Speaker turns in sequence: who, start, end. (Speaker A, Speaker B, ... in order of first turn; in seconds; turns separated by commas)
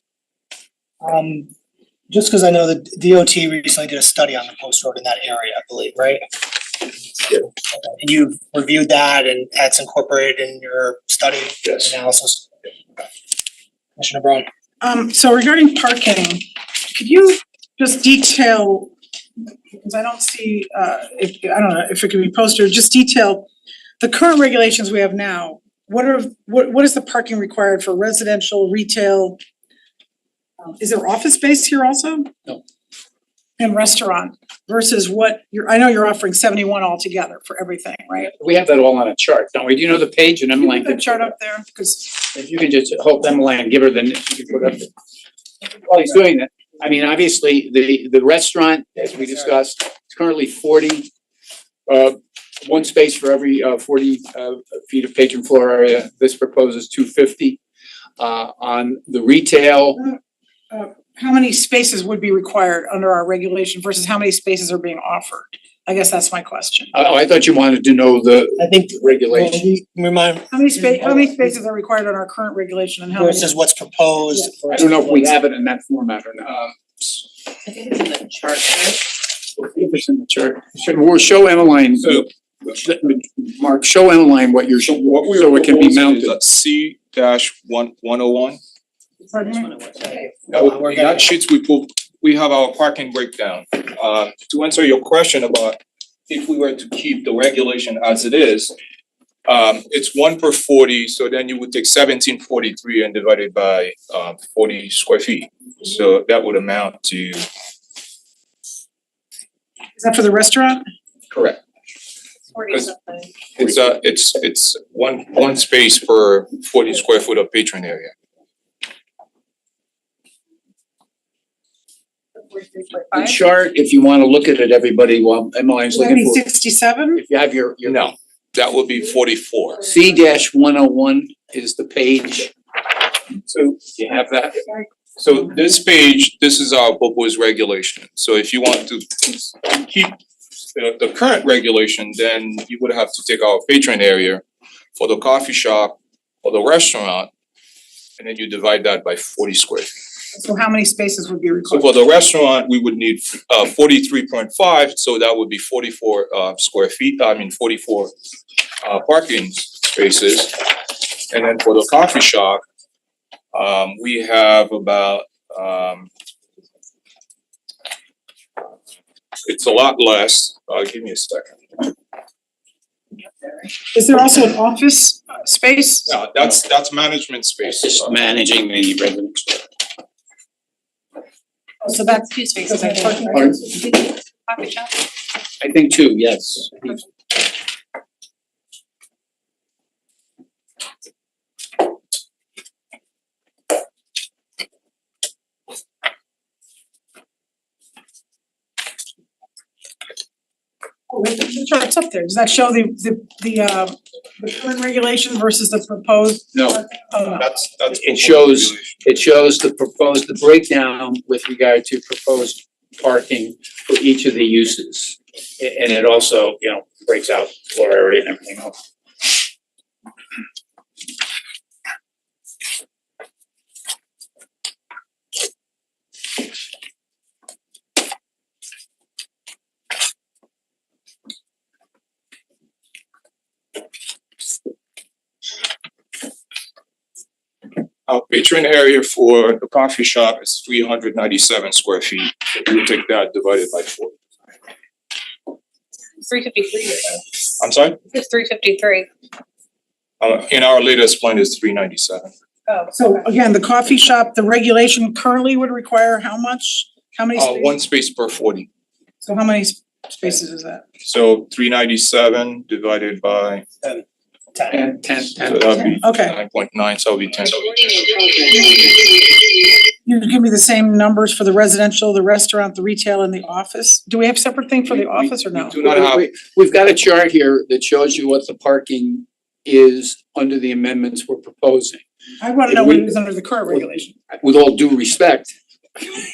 Speaker A: 1.0-1.5, Speaker A: 2.1-12.5, Speaker A: 14.0-14.5, Speaker B: 14.8-18.9, Speaker B: 19.7-29.4, Speaker B: 30.6-32.3, Speaker B: 33.6-38.3, Speaker C: 38.4-41.2, Speaker B: 40.6-42.1, Speaker C: 42.2-44.9, Speaker C: 45.8-51.1, Speaker C: 51.9-57.6, Speaker C: 58.2-60.0, Speaker B: 60.7-66.9, Speaker C: 66.9-69.7, Speaker A: 68.6-71.6, Speaker B: 70.5-73.6, Speaker A: 73.1-75.4, Speaker C: 74.7-76.5, Speaker C: 77.7-86.4, Speaker D: 84.8-88.6, Speaker B: 89.3-89.7, Speaker A: 90.0-91.3, Speaker D: 90.5-98.7, Speaker D: 99.5-107.4, Speaker B: 110.0-110.8, Speaker D: 111.3-111.6, Speaker E: 112.5-113.3, Speaker D: 113.6-118.1, Speaker E: 122.5-123.4, Speaker C: 123.1-126.5, Speaker B: 125.9-127.2, Speaker C: 127.2-128.2, Speaker D: 127.9-129.9, Speaker C: 129.9-132.5, Speaker D: 133.5-133.8, Speaker C: 133.8-134.6, Speaker D: 135.2-140.2, Speaker D: 140.7-144.4, Speaker D: 145.0-147.3, Speaker D: 148.2-149.9, Speaker B: 150.3-151.9, Speaker D: 151.7-158.1, Speaker D: 158.8-162.6, Speaker D: 163.5-166.1, Speaker D: 169.4-171.9, Speaker B: 173.9-176.1, Speaker D: 176.1-178.4, Speaker C: 177.6-179.7, Speaker B: 181.8-183.6, Speaker E: 182.2-184.9, Speaker C: 183.3-183.6, Speaker C: 185.6-187.0, Speaker B: 201.1-207.5, Speaker C: 206.5-206.8, Speaker D: 207.3-209.0, Speaker C: 207.9-218.7, Speaker D: 238.1-244.2, Speaker E: 246.2-247.2, Speaker D: 247.6-248.0, Speaker E: 248.1-249.1, Speaker D: 250.2-252.3, Speaker B: 252.9-257.8, Speaker D: 257.4-258.7, Speaker B: 259.2-260.8, Speaker D: 261.0-263.6, Speaker A: 264.6-264.9, Speaker C: 264.7-265.9, Speaker D: 265.4-267.7, Speaker B: 265.8-266.4, Speaker E: 267.9-268.9, Speaker B: 270.0-275.8, Speaker D: 275.5-276.2, Speaker C: 275.8-282.0, Speaker B: 282.4-284.1, Speaker C: 282.7-283.2, Speaker C: 283.7-285.5